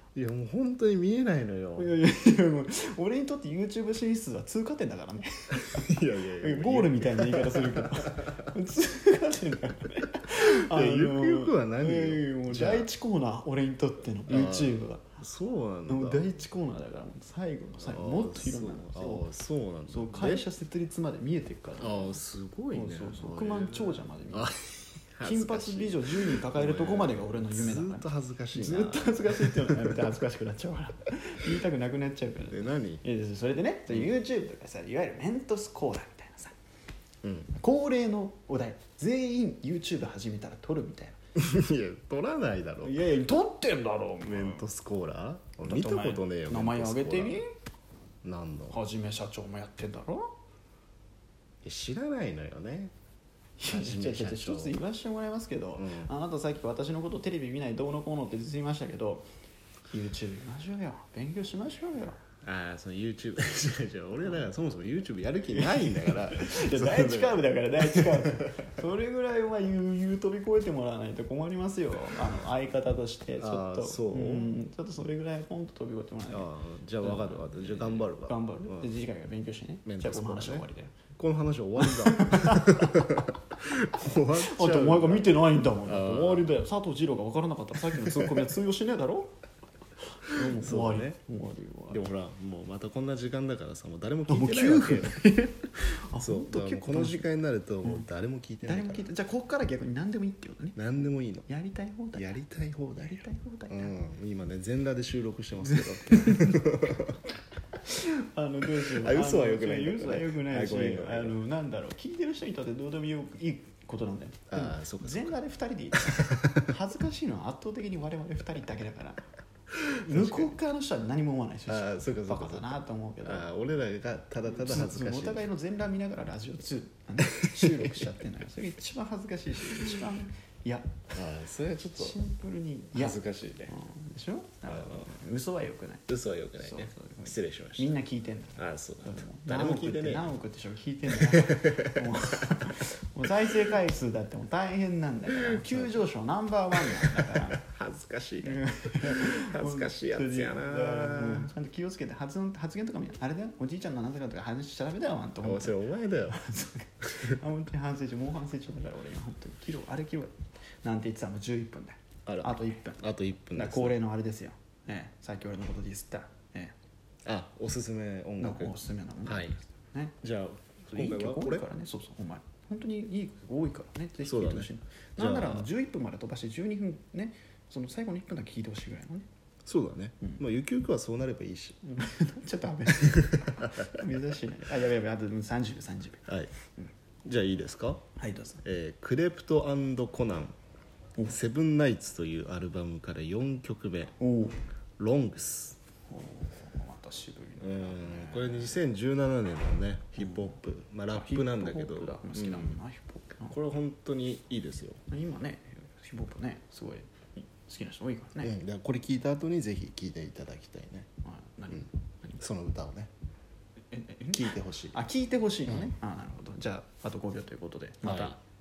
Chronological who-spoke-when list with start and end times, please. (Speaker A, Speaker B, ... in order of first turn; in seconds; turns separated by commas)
Speaker A: 0.1-1.9, Speaker B: 1.8-15.0, Speaker A: 5.5-8.5, Speaker A: 10.3-12.9, Speaker A: 14.3-16.2, Speaker B: 15.9-19.3, Speaker A: 17.8-20.5, Speaker B: 19.9-22.2, Speaker A: 21.8-30.0, Speaker B: 22.7-24.5, Speaker B: 25.2-36.5, Speaker A: 32.5-33.0, Speaker A: 37.2-37.5, Speaker B: 37.5-41.2, Speaker A: 41.3-43.0, Speaker B: 42.8-44.6, Speaker A: 44.2-47.4, Speaker B: 45.6-47.5, Speaker A: 48.2-48.8, Speaker B: 48.7-50.3, Speaker A: 51.6-52.9, Speaker B: 53.6-59.3, Speaker A: 53.7-54.8, Speaker A: 55.8-56.1, Speaker B: 59.9-62.2, Speaker A: 62.4-68.6, Speaker B: 65.8-76.5, Speaker A: 73.4-74.5, Speaker A: 76.3-78.9, Speaker B: 77.0-80.9, Speaker A: 79.8-80.7, Speaker A: 81.2-86.5, Speaker B: 81.8-82.9, Speaker B: 84.2-89.3, Speaker A: 87.8-88.5, Speaker B: 90.2-92.0, Speaker A: 90.4-91.2, Speaker A: 91.9-95.2, Speaker B: 94.3-97.3, Speaker A: 96.2-99.1, Speaker B: 98.6-100.8, Speaker A: 100.8-101.5, Speaker B: 101.5-102.4, Speaker A: 102.1-107.2, Speaker B: 103.0-104.0, Speaker B: 105.6-106.6, Speaker B: 107.8-119.2, Speaker A: 108.8-111.4, Speaker A: 114.5-115.4, Speaker A: 116.0-116.6, Speaker A: 119.9-120.5, Speaker B: 120.0-123.5, Speaker A: 121.7-125.5, Speaker B: 124.4-130.9, Speaker A: 131.1-132.2, Speaker B: 131.9-136.1, Speaker A: 132.9-133.7, Speaker A: 134.7-135.1, Speaker A: 136.1-137.9, Speaker B: 136.6-147.6, Speaker A: 138.6-140.3, Speaker A: 141.1-142.4, Speaker A: 145.4-146.1, Speaker A: 146.9-151.5, Speaker B: 148.4-155.8, Speaker A: 155.4-156.4, Speaker B: 156.3-160.3, Speaker A: 157.0-157.4, Speaker B: 160.8-163.0, Speaker A: 162.2-164.0, Speaker B: 163.5-166.7, Speaker A: 167.2-169.6, Speaker B: 168.4-170.2, Speaker A: 170.2-171.7, Speaker B: 170.9-179.2, Speaker A: 174.2-175.7, Speaker A: 179.6-181.8, Speaker B: 181.8-186.9, Speaker A: 182.9-184.1, Speaker A: 186.3-186.5, Speaker A: 187.2-188.0, Speaker B: 188.2-188.6, Speaker A: 188.6-190.6, Speaker A: 191.2-194.2, Speaker B: 194.2-194.6, Speaker A: 195.0-195.8, Speaker B: 196.1-198.8, Speaker A: 197.6-202.7, Speaker B: 200.2-200.6, Speaker B: 201.1-203.6, Speaker A: 203.5-205.0, Speaker B: 205.1-208.5, Speaker A: 208.4-211.1, Speaker B: 211.2-212.4, Speaker A: 212.4-213.1, Speaker B: 213.9-218.4, Speaker A: 214.3-215.0, Speaker A: 215.7-215.9, Speaker A: 218.0-218.3